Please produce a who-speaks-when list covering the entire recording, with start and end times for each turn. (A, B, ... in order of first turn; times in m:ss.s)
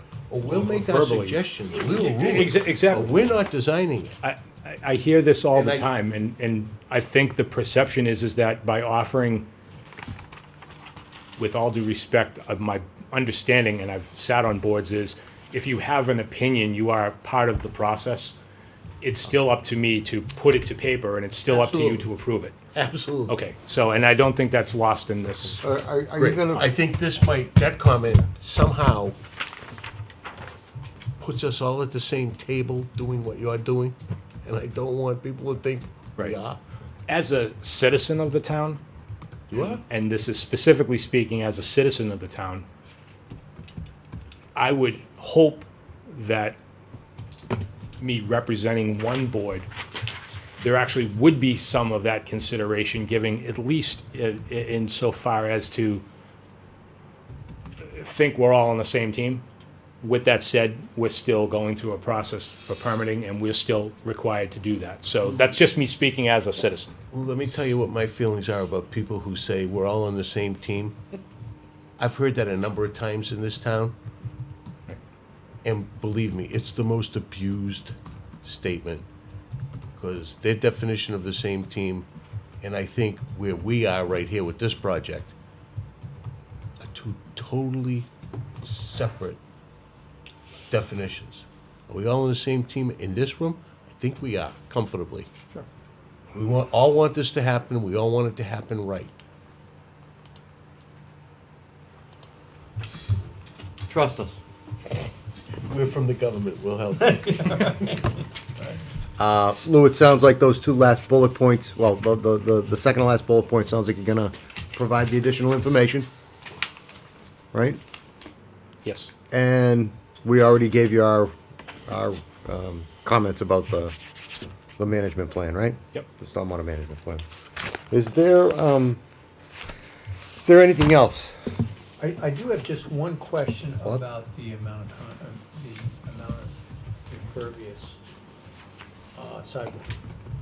0:00.3-0:04.2 A
0:00.5-0:03.3 B
0:04.2-0:09.5 B
0:05.5-0:05.9 A
0:11.4-0:18.4 B
0:19.0-0:22.6 B
0:21.5-0:22.1 A
0:22.8-0:23.4 A
0:23.3-0:25.6 B
0:25.6-0:26.7 C
0:26.2-0:29.2 A
0:31.2-0:36.6 A
0:37.1-0:38.8 B
0:39.5-0:39.8 A
0:39.5-0:42.7 B
0:44.6-0:46.6 B
0:48.0-0:49.7 B
0:50.6-0:56.0 B
0:57.8-0:59.4 B
1:00.0-1:06.9 B
1:07.1-1:11.0 A
1:12.0-1:14.0 A
1:15.6-1:19.1 A
1:20.0-1:22.1 A
1:22.6-1:25.3 A
1:26.8-1:28.1 A
1:28.6-1:29.4 A
1:30.7-1:35.3 A
1:36.3-1:39.1 A
1:43.9-1:44.4 C
1:45.6-1:48.0 A
1:47.1-1:48.0 D
1:49.2-1:56.1 C
1:57.5-1:57.8 C
1:58.8-1:59.1 B
1:59.3-2:01.3 C
2:01.9-2:04.0 C
2:04.8-2:07.2 C
2:07.7-2:09.0 C
2:10.4-2:11.4 C
2:12.0-2:16.6 D
2:17.1-2:18.0 D
2:19.2-2:19.9 D